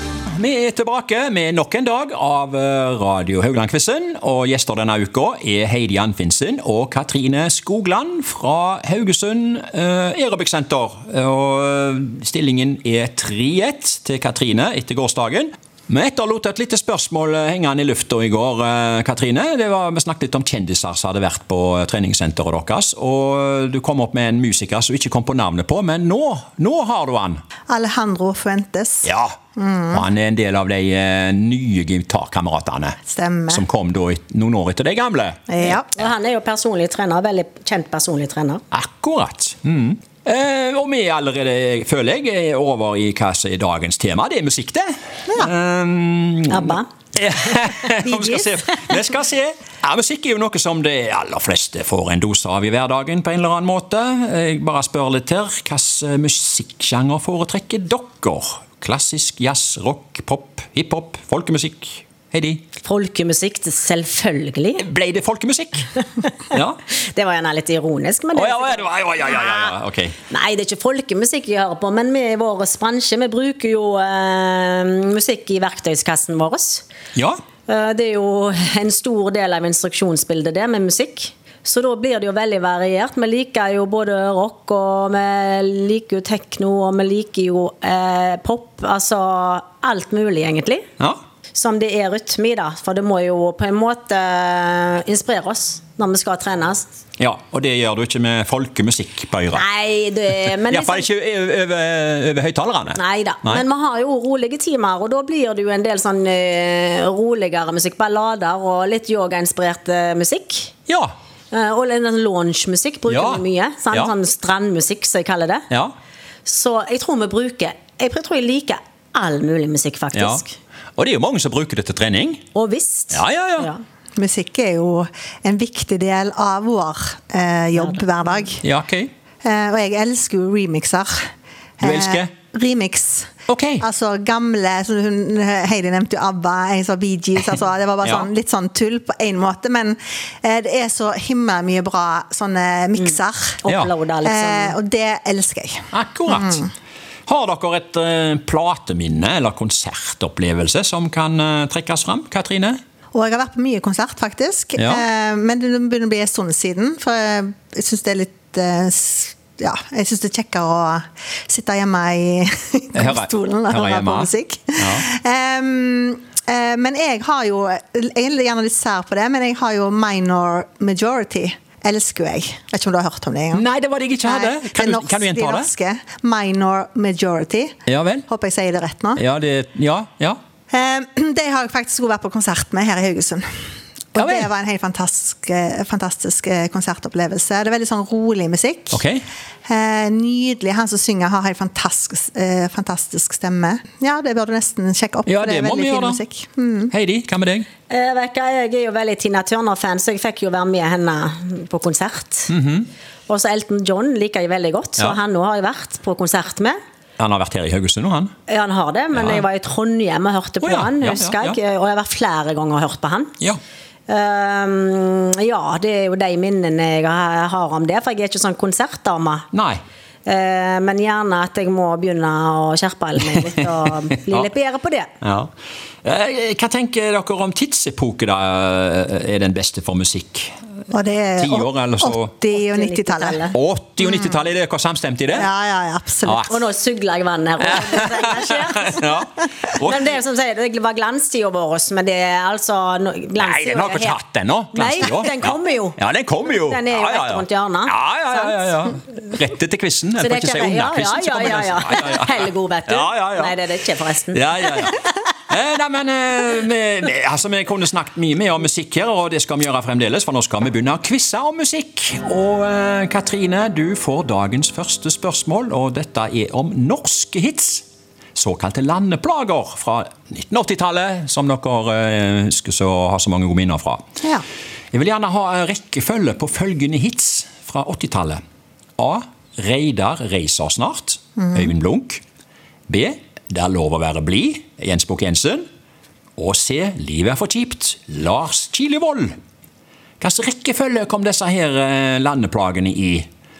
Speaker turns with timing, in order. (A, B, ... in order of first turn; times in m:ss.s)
0:00.3-0:27.4 A
0:27.7-0:30.0 B
0:29.0-0:29.4 A
0:29.9-0:35.5 A
0:33.1-0:33.6 B
0:35.5-0:35.9 B
0:35.9-0:38.6 C
0:38.7-1:02.6 A
0:46.5-0:46.9 C
0:48.0-0:48.5 B
1:02.8-1:04.8 C
1:04.8-1:05.9 A
1:06.5-1:06.8 A
1:06.9-1:09.7 C
1:08.3-1:10.1 A
1:10.3-1:16.8 C
1:17.7-1:30.9 C
1:31.5-1:36.9 C
1:37.2-1:39.6 A
1:39.5-1:41.0 C
1:40.7-1:43.6 A
1:42.9-1:50.7 C
1:51.5-1:55.6 C
1:53.1-1:54.1 A
1:56.4-2:00.5 C
2:00.1-2:00.4 A
2:01.0-2:02.4 A
2:02.5-2:03.8 C
2:03.1-2:03.7 A
2:04.2-2:08.6 B
2:07.8-2:08.5 C
2:08.6-2:09.1 A
2:09.4-2:11.2 B
2:11.8-2:23.6 B
2:11.8-2:12.3 A
2:13.5-2:13.8 A
2:18.0-2:18.3 A
2:23.0-2:24.8 C
2:24.2-2:26.7 B
2:25.9-2:26.6 A
2:27.3-2:32.8 A
2:33.1-2:53.6 B
2:34.8-2:35.0 A
2:42.9-2:45.0 A
2:53.5-2:55.7 A
2:54.2-2:59.2 B
2:57.8-2:58.2 A
2:59.2-3:00.4 A
3:00.7-3:03.4 B
3:04.1-3:09.0 B
3:04.2-3:04.5 A
3:08.9-3:09.2 A
3:09.6-3:16.9 B
3:15.2-3:16.2 A
3:16.9-3:17.7 A
3:17.9-3:22.5 C
3:22.5-3:22.9 A
3:23.3-3:26.8 C
3:27.2-3:28.3 A
3:28.5-3:33.3 C
3:29.1-3:29.4 A
3:30.6-3:31.6 A
3:34.1-3:39.5 C
3:39.5-3:39.8 A
3:40.2-3:45.1 C
3:45.2-3:45.5 A
3:46.0-3:50.5 A
3:50.9-3:53.4 B
3:51.4-3:52.3 A
3:52.5-3:53.5 C
3:53.5-3:55.5 A
3:54.0-3:54.4 B
3:55.3-3:56.4 B
3:56.2-3:56.6 A
3:56.5-3:59.1 C
3:57.6-4:00.1 A
3:59.7-4:04.2 C
4:03.4-4:13.5 A
4:04.7-4:06.0 C
4:06.5-4:07.9 C
4:10.2-4:14.4 C
4:14.3-4:34.0 A
4:34.9-4:38.4 A
4:39.0-4:42.2 A
4:41.4-4:41.7 B
4:42.9-4:45.6 A
4:46.4-4:49.3 A
4:50.2-4:53.3 A